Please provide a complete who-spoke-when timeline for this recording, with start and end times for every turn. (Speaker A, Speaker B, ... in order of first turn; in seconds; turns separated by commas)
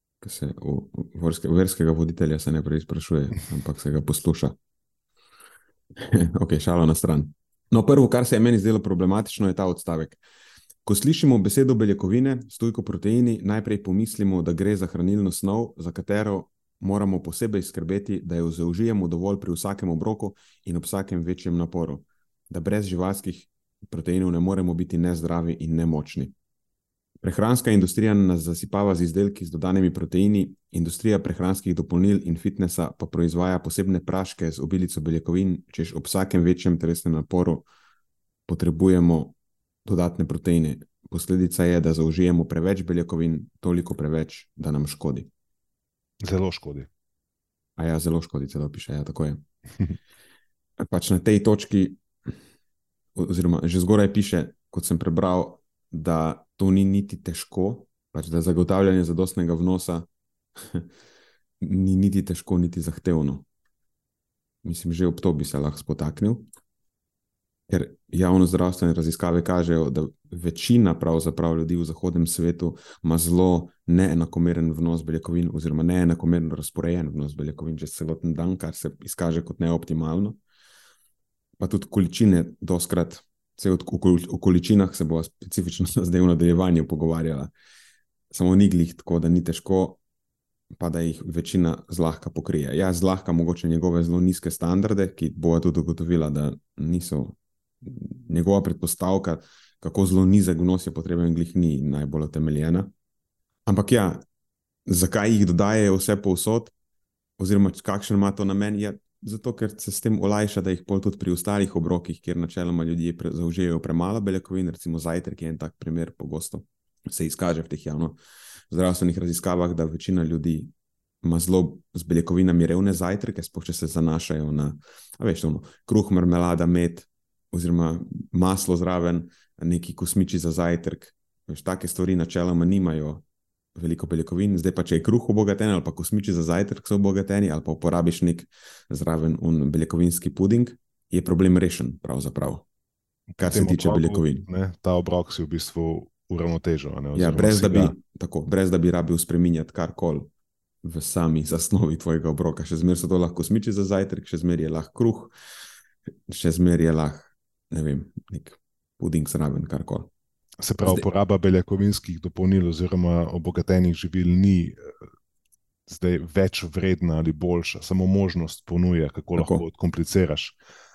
Speaker A: 0.2-4.5, Speaker A: 6.0-10.2, Speaker A: 10.8-26.3, Speaker A: 27.2-37.7, Speaker A: 38.5-45.3, Speaker B: 46.2-46.9, Speaker A: 47.8-49.4, Speaker A: 50.8-52.0, Speaker A: 53.1-60.1, Speaker A: 60.6-60.9, Speaker A: 61.6-63.4, Speaker A: 64.6-66.4, Speaker A: 67.7-80.4, Speaker A: 81.6-87.5, Speaker A: 88.3-90.0, Speaker A: 90.7-102.9, Speaker A: 103.7-104.2, Speaker A: 104.9-106.7, Speaker A: 107.4-118.2, Speaker A: 118.7-120.7, Speaker A: 121.2-133.2, Speaker A: 133.8-142.6, Speaker B: 143.3-147.9, Speaker A: 143.4-144.4, Speaker A: 147.1-150.3, Speaker A: 150.8-155.3, Speaker A: 156.3-160.1, Speaker B: 160.6-164.9, Speaker A: 160.8-161.0, Speaker B: 165.9-170.6, Speaker A: 169.4-169.6